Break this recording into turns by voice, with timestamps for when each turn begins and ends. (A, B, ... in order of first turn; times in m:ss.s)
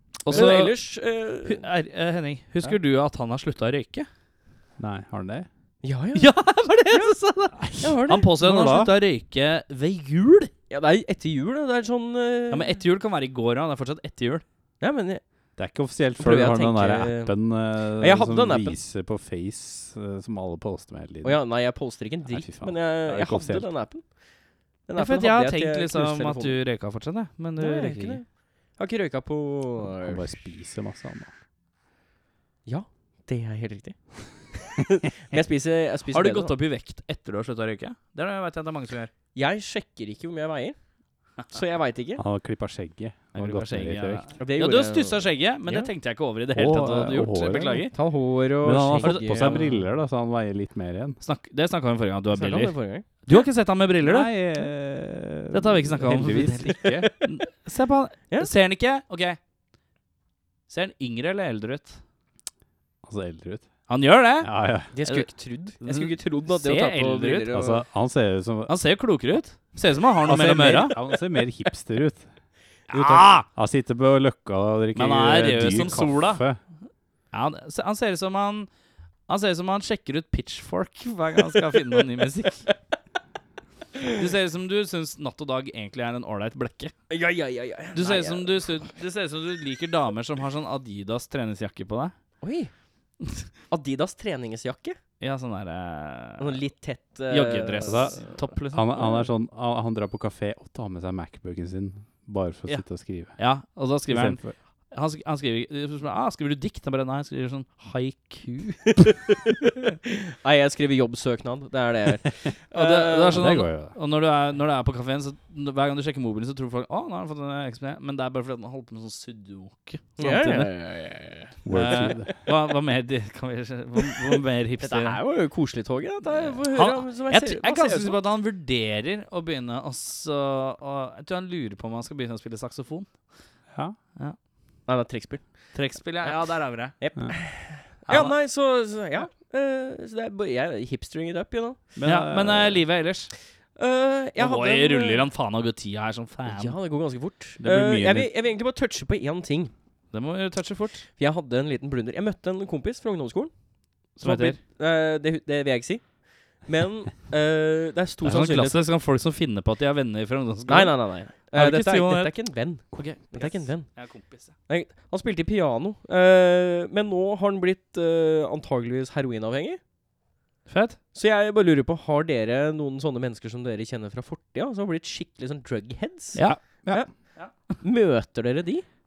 0:00.2-0:00.8 A
0:00.3-0:01.7 B
0:01.4-0:04.1 A
0:04.8-0:05.5 C
0:05.8-0:08.3 B
0:06.2-0:10.5 A
0:08.4-0:08.9 C
0:10.7-0:12.8 B
0:12.5-0:14.4 A
0:14.8-0:15.2 B
0:15.6-0:21.4 C
0:16.2-0:18.8 B
0:21.2-0:24.2 B
0:22.3-0:23.7 C
0:24.8-0:26.6 B
0:25.0-0:28.2 A
0:27.6-0:30.2 B
0:29.9-0:31.3 C
0:32.7-0:36.5 B
0:36.1-0:39.1 A
0:39.4-0:40.8 B
0:41.5-0:42.2 B
0:42.2-0:44.3 C
0:43.4-0:47.9 A
0:44.4-0:45.9 B
0:46.5-0:47.9 C
0:47.9-0:49.6 B
0:48.6-0:51.2 C
0:49.0-0:49.8 A
0:51.2-0:54.3 A
0:52.3-0:53.3 B
0:54.0-0:57.1 C
0:55.5-0:59.4 A
1:00.7-1:02.0 A
1:03.0-1:03.9 C
1:03.9-1:04.5 A
1:04.4-1:04.9 C
1:04.9-1:07.8 B
1:05.0-1:05.3 A
1:05.8-1:07.5 A
1:07.5-1:08.8 C
1:08.7-1:11.0 A
1:10.3-1:12.3 C
1:12.9-1:13.5 A
1:12.9-1:13.3 B
1:13.6-1:16.6 C
1:15.0-1:16.4 A
1:17.3-1:18.7 A
1:19.3-1:22.7 A
1:24.1-1:26.9 A
1:27.1-1:28.9 B
1:27.9-1:32.1 A
1:32.4-1:32.7 B
1:33.7-1:35.0 B
1:35.2-1:36.6 A
1:36.4-1:38.2 B
1:37.3-1:39.3 A
1:37.8-1:43.4 C
1:43.4-1:49.1 A
1:44.1-1:44.6 C
1:50.4-1:53.4 B
1:52.7-2:00.7 A
1:53.3-1:54.0 C
2:00.2-2:01.6 B
2:01.6-2:02.3 C
2:01.7-2:05.2 A
2:04.8-2:08.2 B
2:06.2-2:13.1 A
2:14.9-2:21.9 B
2:15.7-2:17.0 A
2:18.1-2:18.4 A
2:22.0-2:22.8 C
2:22.0-2:23.3 A
2:23.8-2:25.2 B
2:24.4-2:26.8 A
2:26.5-2:29.7 B
2:27.6-2:28.3 C
2:30.1-2:31.1 A
2:31.2-2:33.5 B
2:34.1-2:38.8 B
2:34.2-2:34.6 A
2:38.2-2:44.5 A
2:40.7-2:44.1 B
2:44.7-2:49.8 B
2:50.7-2:51.0 A
2:51.1-2:58.8 B
2:56.4-2:57.7 A